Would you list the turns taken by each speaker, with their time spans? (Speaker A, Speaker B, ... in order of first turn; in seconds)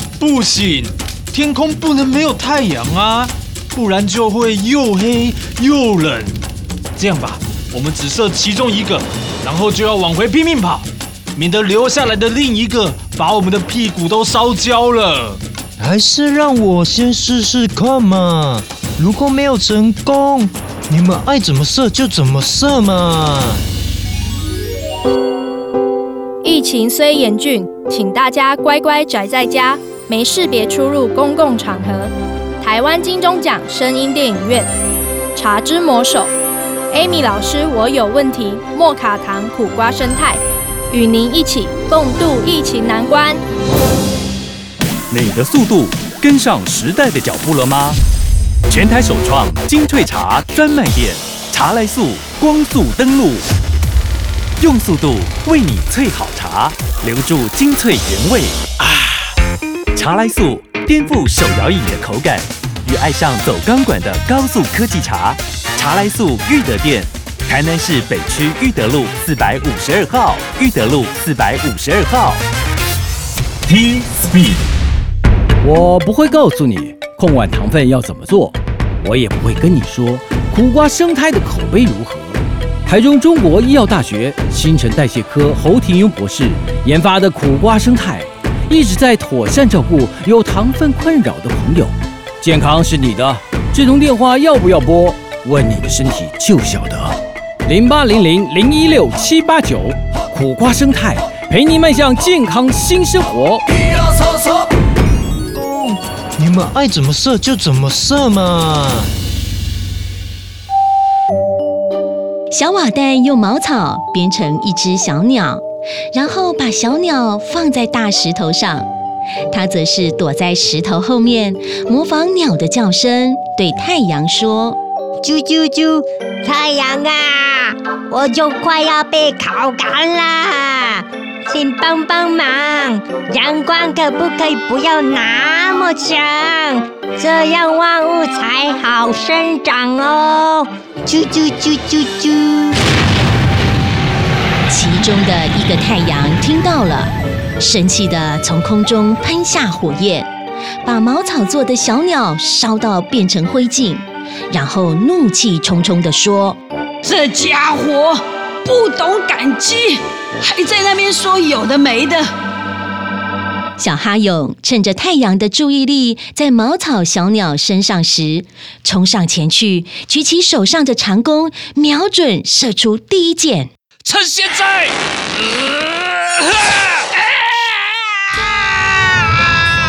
Speaker A: 0.2-6.4, 7.0-15.4
Speaker B: 15.8-23.6, 105.5-109.1
Speaker C: 26.4-34.7, 35.4-36.3, 36.9-43.4
Speaker D: 45.1-48.0, 48.7-53.5, 54.6-59.3, 60.0-72.4, 73.7-74.7
Speaker E: 75.6-103.7
Speaker F: 112.5-118.9, 119.5-124.8, 144.7-150.3, 150.8-156.6, 163.8-173.7
Speaker G: 125.2-142.8
Speaker H: 157.0-162.2
Speaker I: 174.0-177.3